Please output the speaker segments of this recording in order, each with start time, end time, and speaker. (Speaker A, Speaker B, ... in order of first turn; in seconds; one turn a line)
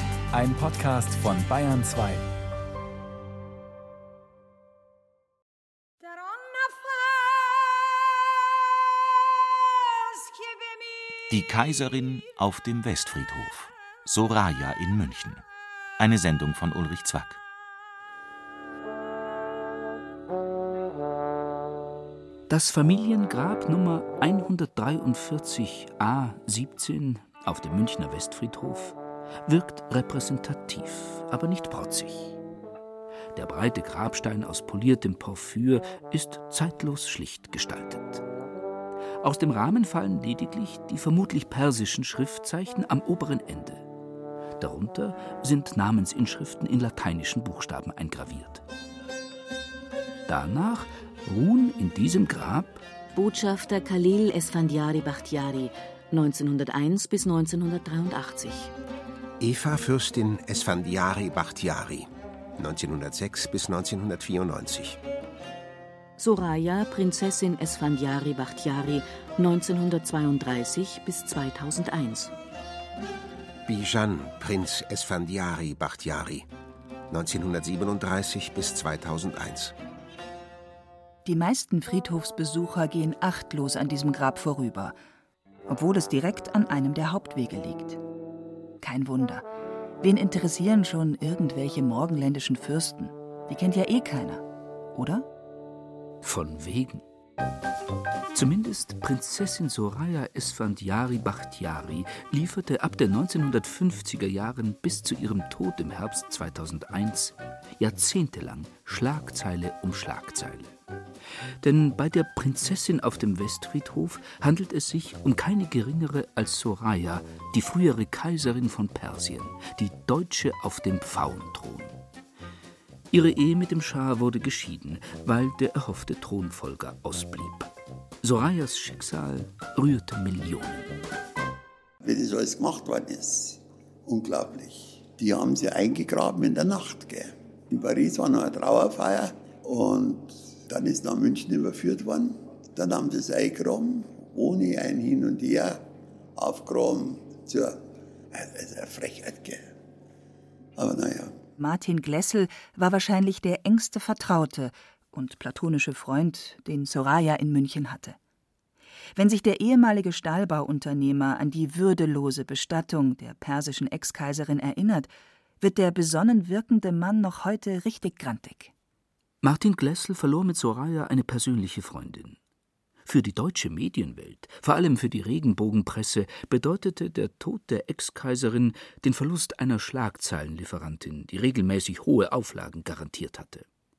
Speaker A: 0.3-2.2
Speaker B: 11.3-15.4
Speaker B: 16.0-17.4
Speaker C: 22.5-32.4
Speaker C: 33.3-38.2
Speaker C: 39.2-43.8
Speaker C: 44.6-48.6
Speaker C: 50.3-52.8
Speaker D: 53.2-58.7
Speaker E: 59.4-65.0
Speaker D: 66.2-72.3
Speaker E: 73.7-76.5
Speaker E: 77.1-79.8
Speaker F: 81.2-85.0
Speaker F: 85.7-88.0
Speaker F: 88.8-89.5
Speaker F: 90.0-95.3
Speaker C: 96.2-97.0
Speaker C: 98.3-110.8
Speaker C: 111.6-122.0
Speaker C: 123.1-127.7
Speaker C: 128.2-130.9
Speaker G: 132.0-145.8
Speaker G: 146.3-147.8
Speaker G: 148.3-149.6
Speaker G: 150.8-151.3
Speaker F: 151.6-158.2
Speaker F: 159.2-168.7
Speaker C: 169.4-172.4
Speaker C: 173.1-183.7